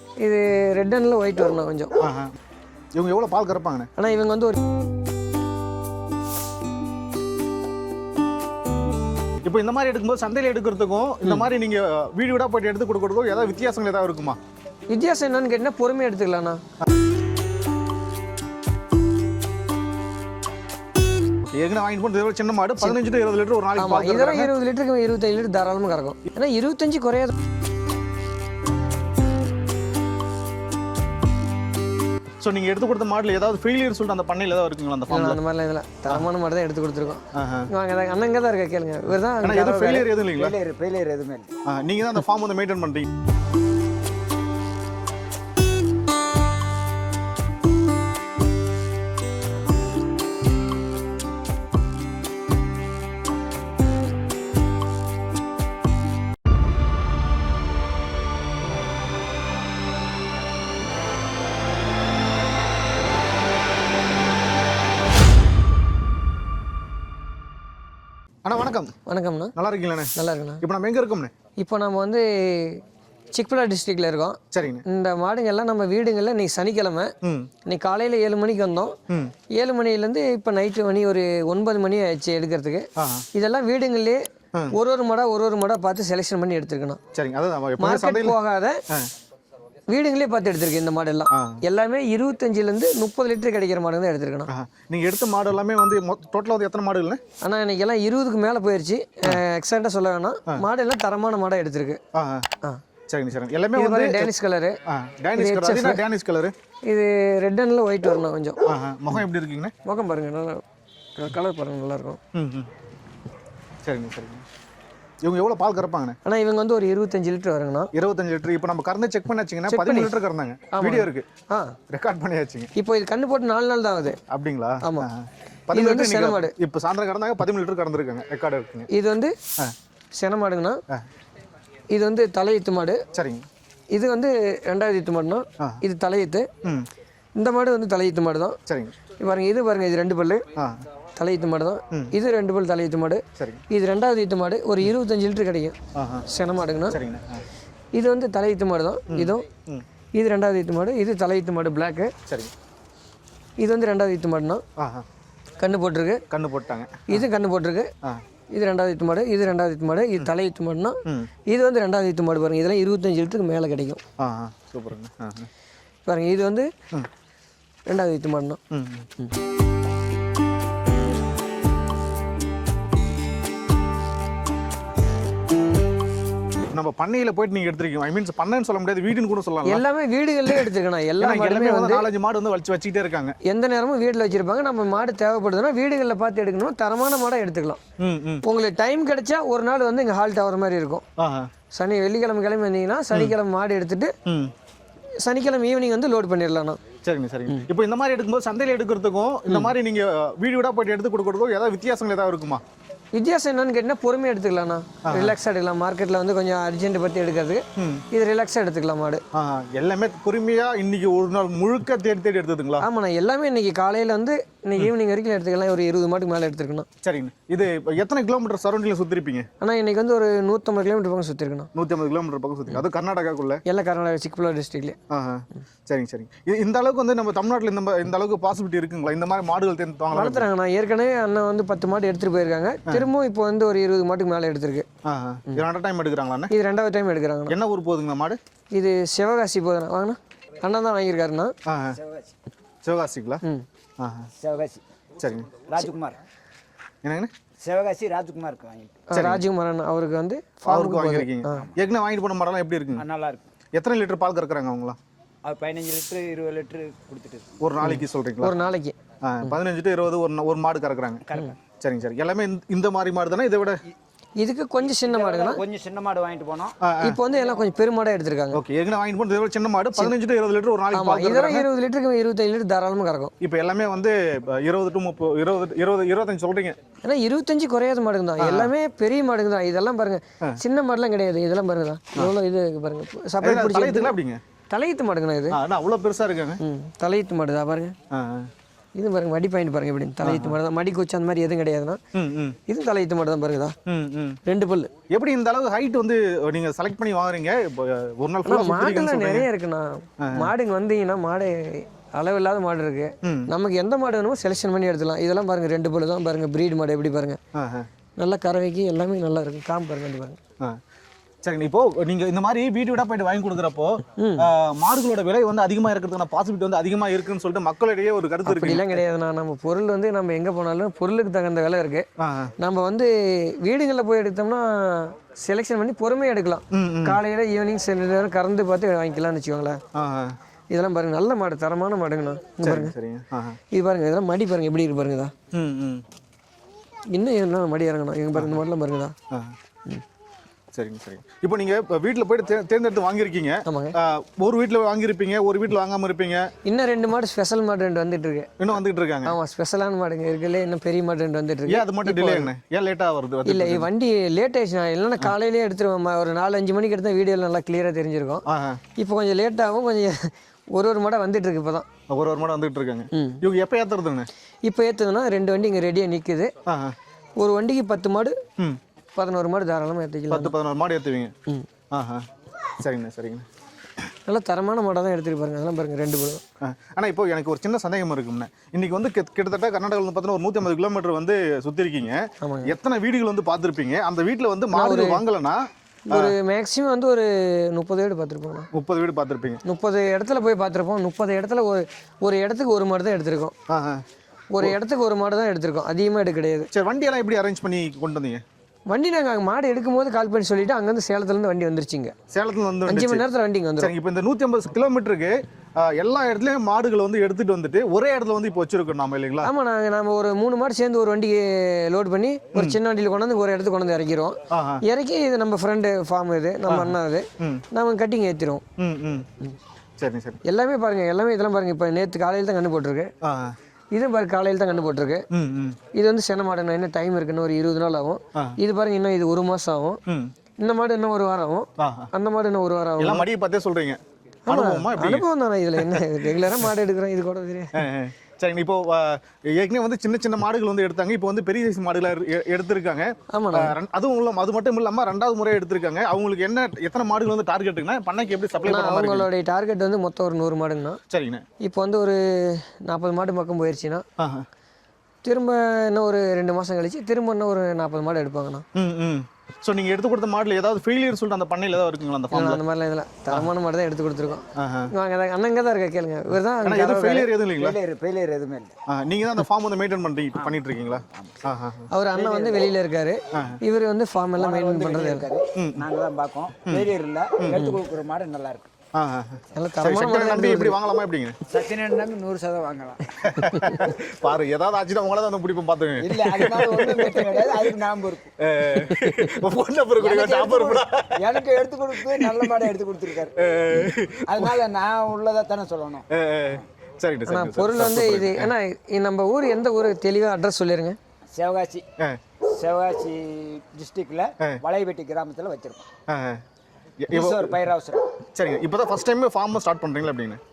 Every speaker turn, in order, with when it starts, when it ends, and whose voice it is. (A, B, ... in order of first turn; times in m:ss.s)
0:00.2-0:01.9 A
0:02.0-0:02.3 B
0:02.9-0:03.9 B
0:04.0-0:04.6 A
0:09.4-0:14.4 B
0:14.9-0:16.6 A
0:21.5-0:24.5 B
0:23.8-0:27.3 A
0:32.4-0:35.4 B
0:35.1-0:40.1 A
0:37.3-0:37.7 B
0:39.4-0:40.6 B
0:40.4-0:41.5 C
0:41.6-0:43.1 B
1:08.4-1:08.9 B
1:09.1-1:09.5 A
1:09.6-1:11.3 B
1:10.2-1:10.6 A
1:11.6-1:12.8 A
1:13.3-1:17.1 A
1:14.5-1:14.8 B
1:17.2-1:17.5 B
1:17.6-1:18.9 A
1:19.5-1:24.2 A
1:23.0-1:23.2 B
1:24.7-1:27.0 A
1:27.1-1:28.4 B
1:27.8-1:28.8 A
1:29.9-1:34.5 A
1:31.3-1:31.6 B
1:34.5-1:37.2 B
1:37.4-1:42.0 A
1:42.1-1:42.5 B
1:43.1-1:44.3 B
1:43.8-1:44.8 A
1:44.9-1:46.5 B
1:45.3-1:46.0 A
1:46.9-1:48.6 A
1:48.6-1:49.7 B
1:49.8-1:50.6 A
1:51.2-1:52.2 A
1:52.3-1:52.7 B
1:53.8-1:54.4 B
1:55.2-1:56.2 B
1:56.2-1:57.9 A
1:57.9-2:01.3 B
1:59.7-2:00.2 A
2:00.7-2:01.8 A
2:01.9-2:02.7 B
2:02.7-2:04.2 A
2:04.3-2:08.9 B
2:04.8-2:05.1 A
2:05.7-2:06.5 A
2:08.9-2:09.3 A
2:10.1-2:10.8 A
2:11.9-2:13.0 A
2:13.1-2:13.4 B
2:13.9-2:16.5 A
2:17.4-2:18.6 A
2:18.7-2:18.9 B
2:19.2-2:20.4 A
2:20.6-2:20.8 B
2:21.2-2:27.0 A
2:23.4-2:23.6 B
2:25.9-2:26.2 B
2:26.9-2:27.4 B
2:27.9-2:29.4 A
2:29.1-2:29.8 B
2:30.1-2:32.1 A
2:32.3-2:32.5 B
2:33.6-2:34.6 A
2:34.8-2:35.0 B
2:35.6-2:36.2 A
2:36.3-2:37.2 B
2:37.1-2:37.9 A
2:38.5-2:44.0 A
2:44.2-2:45.5 B
2:46.0-2:46.7 A
2:47.9-2:48.6 A
2:48.7-2:49.1 B
2:56.7-2:59.8 B
2:59.6-3:02.1 A
3:01.2-3:03.4 B
3:03.4-3:07.8 A
3:08.0-3:08.4 B
3:08.4-3:11.0 A
3:11.2-3:11.5 B
3:11.8-3:14.1 A
3:14.2-3:14.5 B
3:15.2-3:16.8 A
3:17.0-3:22.6 B
3:23.1-3:29.2 A
3:25.0-3:25.3 B
3:27.8-3:28.0 B
3:29.3-3:32.9 B
3:32.8-3:36.9 A
3:37.0-3:39.5 B
3:39.6-3:41.7 A
3:41.7-3:43.6 B
3:43.6-3:45.0 A
3:45.1-3:50.5 B
3:50.1-3:54.9 A
3:55.0-3:56.5 B
3:56.5-3:57.6 A
3:57.5-3:58.4 B
3:58.7-4:01.5 A
4:01.6-4:02.0 B
4:01.9-4:02.3 C
4:02.8-4:03.4 B
4:04.0-4:04.3 B
4:04.4-4:04.8 C
4:05.2-4:05.6 B
4:05.7-4:06.2 C
4:07.0-4:07.3 B
4:07.6-4:09.0 C
4:09.1-4:11.6 A
4:09.1-4:09.4 B
4:10.6-4:13.0 B
4:13.0-4:13.5 C
4:13.7-4:15.0 B
4:15.4-4:17.6 C
4:17.6-4:18.6 B
4:17.8-4:19.0 A
4:19.2-4:23.8 B
4:21.3-4:21.6 C
4:24.4-4:25.6 A
4:24.8-4:26.8 C
4:26.8-4:27.2 B
4:27.0-4:28.6 A
4:28.5-4:31.7 B
4:30.9-4:33.3 A
4:33.4-4:36.8 B
4:37.0-4:44.1 A
4:38.4-4:38.7 B
4:43.4-4:44.4 B
4:44.7-4:45.6 A
4:45.5-4:46.6 B
4:46.6-4:47.9 A
4:48.1-4:48.5 B
4:49.0-4:52.0 A
4:50.2-4:50.6 B
4:52.1-4:52.6 B
4:52.7-4:53.7 A
4:53.9-4:54.4 B
4:54.4-4:54.9 A
4:55.1-4:59.5 B
4:58.4-5:07.4 A
5:00.2-5:00.5 B
5:03.2-5:03.5 B
5:07.5-5:07.9 B
5:08.2-5:10.4 A
5:11.4-5:19.0 B
5:14.2-5:14.5 A
5:18.4-5:22.0 A
5:22.2-5:22.5 B
5:22.6-5:29.8 A
5:26.7-5:27.2 B
5:29.9-5:30.3 B
5:30.7-5:32.9 A
5:32.6-5:33.6 B
5:33.7-5:35.3 A
5:35.5-5:36.0 B
5:37.1-5:39.1 A
5:38.3-5:38.6 B
5:40.7-5:46.5 B
5:43.6-5:43.9 A
5:46.6-5:48.6 A
5:48.6-5:49.4 B
5:49.2-5:52.5 A
5:51.7-5:53.9 B
5:53.4-5:58.4 A
5:58.5-5:58.8 B
5:59.0-6:01.8 A
6:02.1-6:04.3 B
6:03.1-6:03.4 A
6:04.6-6:06.5 A
6:06.6-6:07.0 B
6:07.4-6:08.4 A
6:09.2-6:10.5 A
6:10.3-6:11.3 B
6:11.9-6:12.2 B
6:12.8-6:13.4 B
6:14.3-6:16.4 A
6:16.6-6:25.6 B
6:22.4-6:22.7 A
6:24.7-6:25.2 A
6:26.1-6:28.7 A
6:28.7-6:29.6 B
6:29.6-6:33.5 A
6:33.7-6:34.0 B
6:34.5-6:36.7 A
6:36.7-6:38.4 B
6:38.9-6:42.1 A
6:42.3-6:43.2 B
6:42.8-6:43.9 A
6:43.8-6:49.5 B
6:49.4-6:58.6 A
6:54.5-6:54.8 B
6:56.7-6:57.6 B
6:58.8-6:59.3 B
7:00.0-7:00.4 B
7:00.4-7:03.1 A
7:03.2-7:03.5 B
7:03.9-7:05.2 A
7:05.3-7:05.8 B
7:05.9-7:10.0 A
7:10.6-7:13.3 A
7:11.8-7:12.1 B
7:13.0-7:15.2 B
7:14.5-7:17.8 A
7:15.8-7:16.7 B
7:17.8-7:29.3 B
7:23.3-7:23.7 A
7:28.6-7:31.0 A
7:31.1-7:31.4 B
7:31.6-7:34.0 A
7:34.2-7:34.4 B
7:35.2-7:38.6 A
7:38.8-7:42.6 B
7:42.3-7:47.3 A
7:44.6-7:44.9 B
7:46.6-7:47.8 B
7:47.5-7:48.7 C
7:48.9-7:51.9 B
7:50.3-7:51.4 C
7:51.9-7:55.3 A
7:52.1-7:52.7 C
7:53.3-7:53.6 B
7:54.4-7:58.7 C
7:55.6-7:55.8 B
7:57.5-7:57.8 A
7:59.0-8:01.4 B
7:59.5-8:00.8 A
8:01.5-8:03.2 C
8:03.2-8:07.7 B
8:03.4-8:03.9 A
8:06.0-8:08.4 C
8:08.4-8:11.4 B
8:08.8-8:09.3 A
8:10.0-8:13.4 C
8:12.0-8:12.7 B
8:13.4-8:14.6 B
8:14.3-8:16.1 C
8:16.1-8:18.5 B
8:17.3-8:21.0 A
8:21.3-8:21.8 C
8:22.5-8:25.9 C
8:26.1-8:26.4 B
8:27.0-8:27.5 B
8:27.1-8:28.1 C
8:28.3-8:30.4 B